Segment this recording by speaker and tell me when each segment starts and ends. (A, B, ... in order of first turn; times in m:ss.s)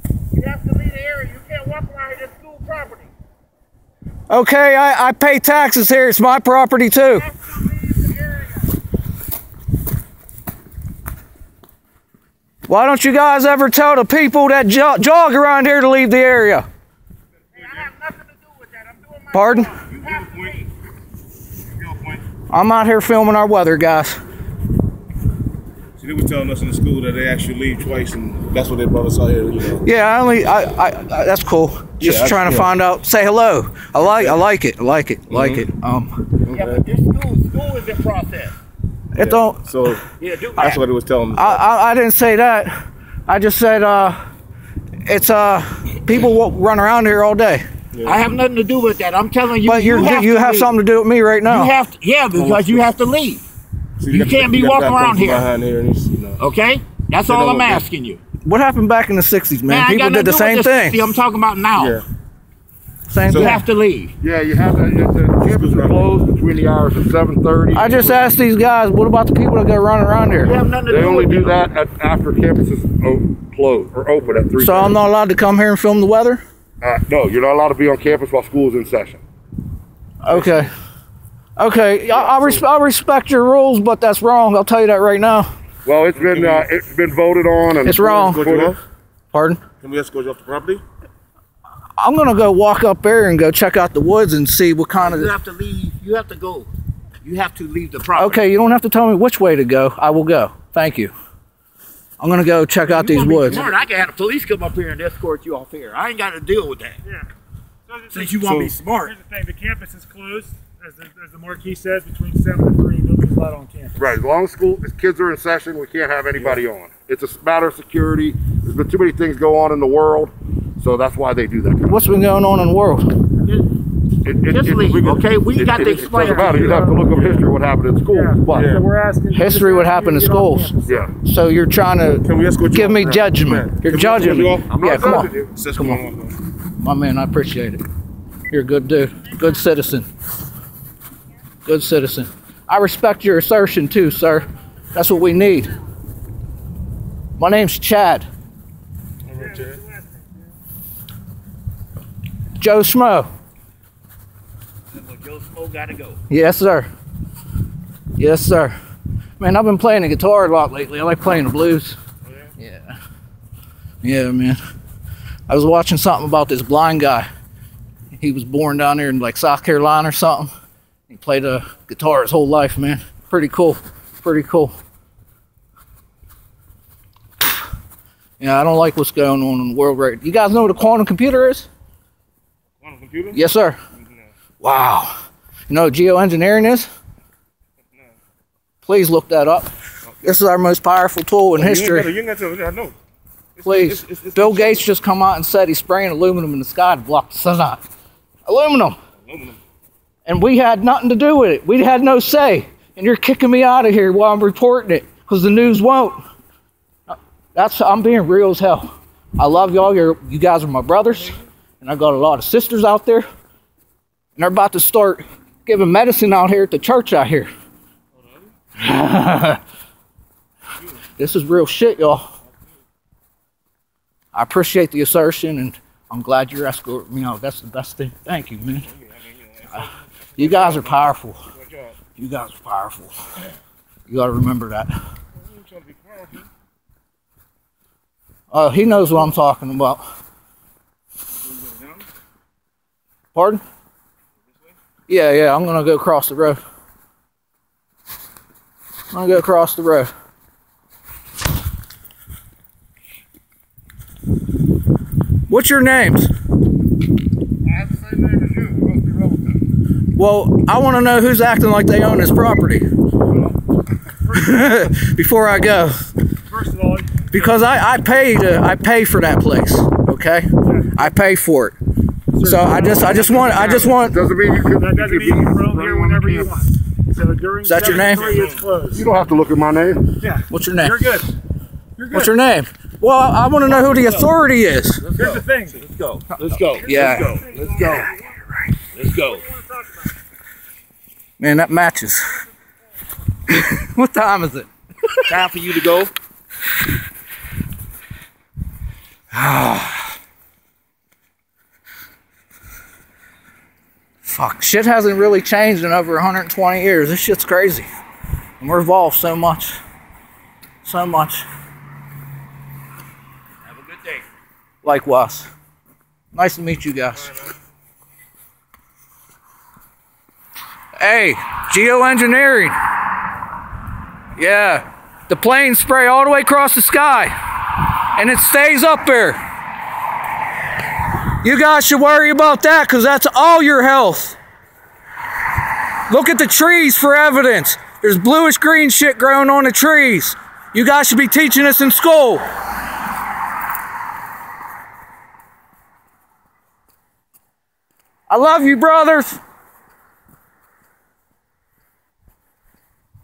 0:00.3-0:03.1 A
0:04.3-0:07.3 B
0:07.2-0:08.7 A
0:12.7-0:16.6 B
0:17.5-0:20.7 A
0:17.6-0:17.9 C
0:19.3-0:19.7 B
0:19.8-0:20.5 C
0:21.8-0:22.2 C
0:22.5-0:24.2 B
0:26.0-0:29.8 C
0:29.8-0:36.1 B
0:32.0-0:32.7 C
0:34.0-0:34.4 C
0:35.3-0:35.6 C
0:36.4-0:36.8 C
0:36.5-0:38.5 A
0:39.1-0:39.6 B
0:39.1-0:40.0 C
0:40.2-0:40.8 A
0:40.6-0:41.6 C
0:41.3-0:44.2 B
0:45.0-0:47.6 B
0:47.9-0:48.2 C
0:48.0-0:50.7 A
0:49.6-0:51.7 B
0:51.4-0:53.4 A
0:52.3-0:52.9 C
0:54.0-0:56.4 C
0:54.1-0:55.5 A
0:56.4-0:58.2 A
0:57.2-0:57.8 C
0:58.4-1:01.0 B
0:59.7-1:02.0 A
1:01.7-1:02.0 C
1:03.1-1:03.6 B
1:03.3-1:03.6 C
1:03.3-1:04.1 A
1:04.2-1:08.3 D
1:05.4-1:06.1 C
1:07.7-1:10.5 B
1:10.4-1:11.6 A
1:10.8-1:15.0 D
1:14.6-1:16.4 B
1:16.8-1:19.2 D
1:20.2-1:20.7 B
1:20.3-1:20.6 D
1:21.6-1:25.5 B
1:22.1-1:22.6 D
1:25.8-1:28.8 D
1:26.1-1:26.7 C
1:27.8-1:28.4 B
1:28.0-1:28.8 C
1:29.3-1:29.6 B
1:29.8-1:30.8 C
1:32.0-1:35.3 B
1:34.9-1:36.7 A
1:37.2-1:38.4 A
1:38.2-1:41.1 B
1:42.2-1:43.7 B
1:42.8-1:47.0 A
1:47.9-1:48.4 E
1:48.1-1:49.1 A
1:48.4-1:48.8 C
1:49.0-1:54.0 E
1:54.0-2:02.0 D
2:01.8-2:03.1 B
2:04.2-2:08.7 D
2:04.5-2:06.5 A
2:06.0-2:07.0 E
2:08.1-2:10.9 E
2:08.5-2:08.8 C
2:09.3-2:16.0 B
2:10.8-2:11.1 D
2:12.2-2:14.8 C
2:14.7-2:15.5 D
2:15.5-2:16.4 C
2:16.8-2:17.8 B
2:18.5-2:20.1 B
2:21.6-2:25.7 B
2:27.4-2:28.3 B
2:29.3-2:29.8 C
2:29.4-2:30.2 E
2:32.6-2:33.3 B
2:34.9-2:36.2 A
2:36.3-2:36.9 B
2:38.2-2:38.8 B
2:39.4-2:42.0 B
2:42.6-2:43.0 B
2:44.0-2:44.6 B
2:45.5-2:47.3 B
2:48.1-2:50.5 B
2:51.1-2:54.8 B
2:58.4-3:01.7 B
3:02.8-3:03.4 C
3:03.3-3:03.8 B
3:04.0-3:04.2 C
3:04.6-3:06.9 B
3:08.8-3:09.7 B
3:10.2-3:12.1 B
3:11.5-3:12.9 C
3:13.6-3:14.9 C
3:13.6-3:17.8 B
3:18.4-3:19.0 B
3:19.2-3:19.6 C
3:20.3-3:26.2 B
3:27.1-3:33.2 B
3:34.4-3:37.5 B
3:38.8-3:39.6 B
3:41.2-3:42.3 B
3:44.3-3:48.9 B
3:48.8-3:51.0 C
3:50.4-3:51.4 B
3:51.5-3:52.0 C
3:52.2-3:53.1 B
3:54.1-3:54.9 B
3:55.4-3:56.5 C
3:58.5-4:00.0 B
4:01.5-4:02.0 C
4:03.3-4:03.6 B
4:05.1-4:06.6 B
4:09.1-4:10.1 B
4:15.5-4:16.3 B
4:17.6-4:19.6 D
4:20.1-4:22.8 B
4:23.3-4:23.5 E
4:24.3-4:24.8 E
4:24.3-4:26.1 B
4:26.5-4:27.5 E
4:27.3-4:31.8 B
4:30.6-4:31.1 E
4:32.3-4:33.9 E
4:32.4-4:34.2 B
4:33.8-4:36.6 D
4:34.7-4:39.0 E
4:37.6-4:38.3 B
4:38.9-4:40.0 D
4:40.2-4:41.3 E
4:40.5-4:41.1 B
4:42.0-4:42.3 E
4:42.1-4:45.1 B
4:43.7-4:44.3 A
4:45.0-4:48.1 A
4:45.2-4:45.8 E
4:46.3-4:47.4 B
4:46.8-4:48.4 E
4:48.9-4:49.4 A
4:49.3-4:50.1 E
4:51.4-4:52.4 B
4:53.5-4:55.3 B
4:55.3-4:56.1 A
4:59.3-5:00.1 B
5:04.2-5:07.9 B
5:08.6-5:09.8 B
5:10.8-5:11.4 B
5:13.7-5:14.2 A
5:14.8-5:15.5 B
5:16.3-5:17.4 B
5:21.0-5:22.8 B
5:24.4-5:29.4 B
5:31.4-5:34.4 B
5:36.1-5:42.4 B
5:48.3-5:49.4 B